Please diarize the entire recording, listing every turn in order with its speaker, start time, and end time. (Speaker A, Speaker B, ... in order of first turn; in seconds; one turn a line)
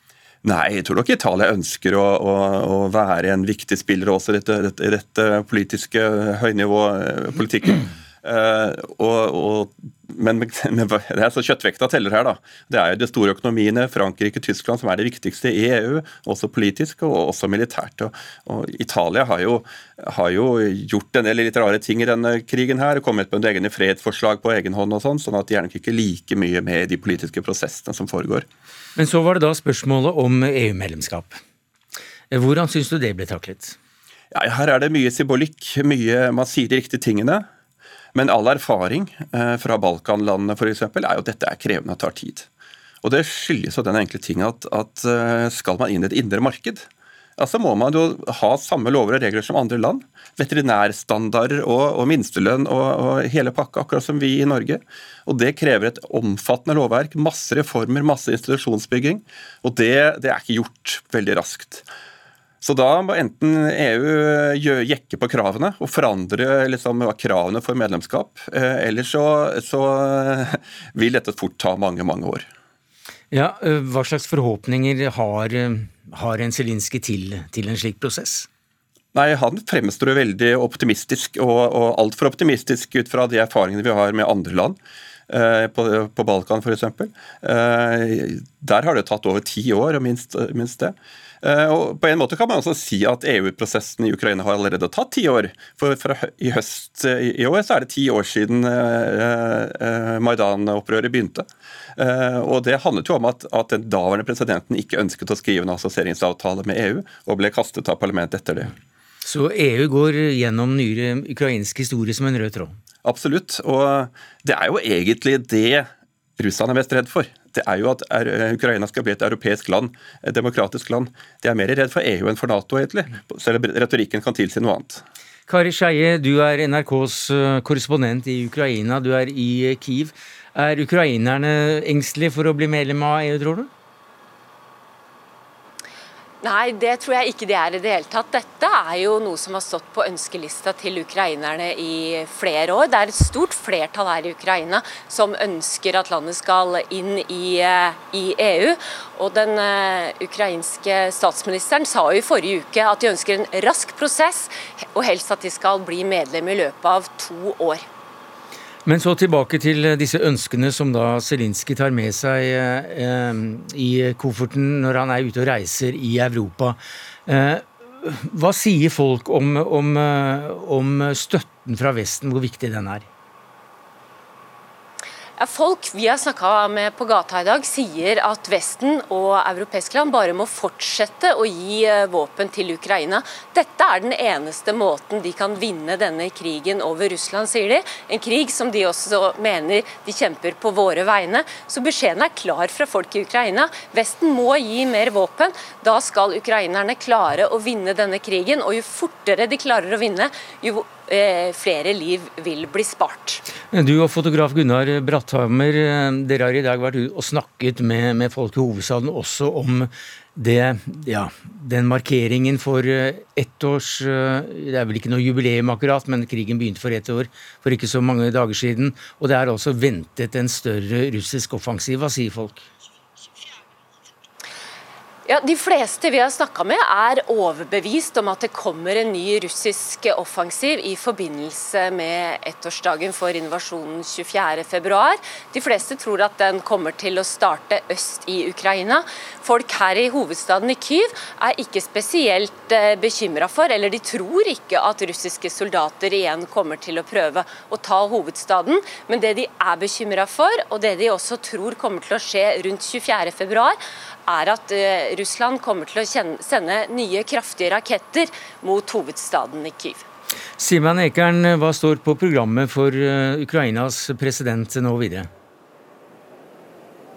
Speaker A: 0.4-28.4
Speaker B: 28.9-31.4
Speaker B: 32.3-33.8
Speaker A: 34.3-37.5
Speaker A: 38.1-42.5
Speaker A: 43.0-61.9
Speaker A: 62.6-72.5
Speaker B: 73.3-78.5
Speaker A: 79.1-84.8
Speaker A: 85.3-108.7
Speaker B: 109.2-112.8
Speaker A: 113.0-125.0
Speaker B: 125.5-133.7
Speaker C: 136.4-157.8
Speaker B: 158.8-173.1
Speaker C: 175.4-203.4
Speaker B: 203.7-222.7
Speaker C: 225.2-260.1
Speaker B: 260.6-265.3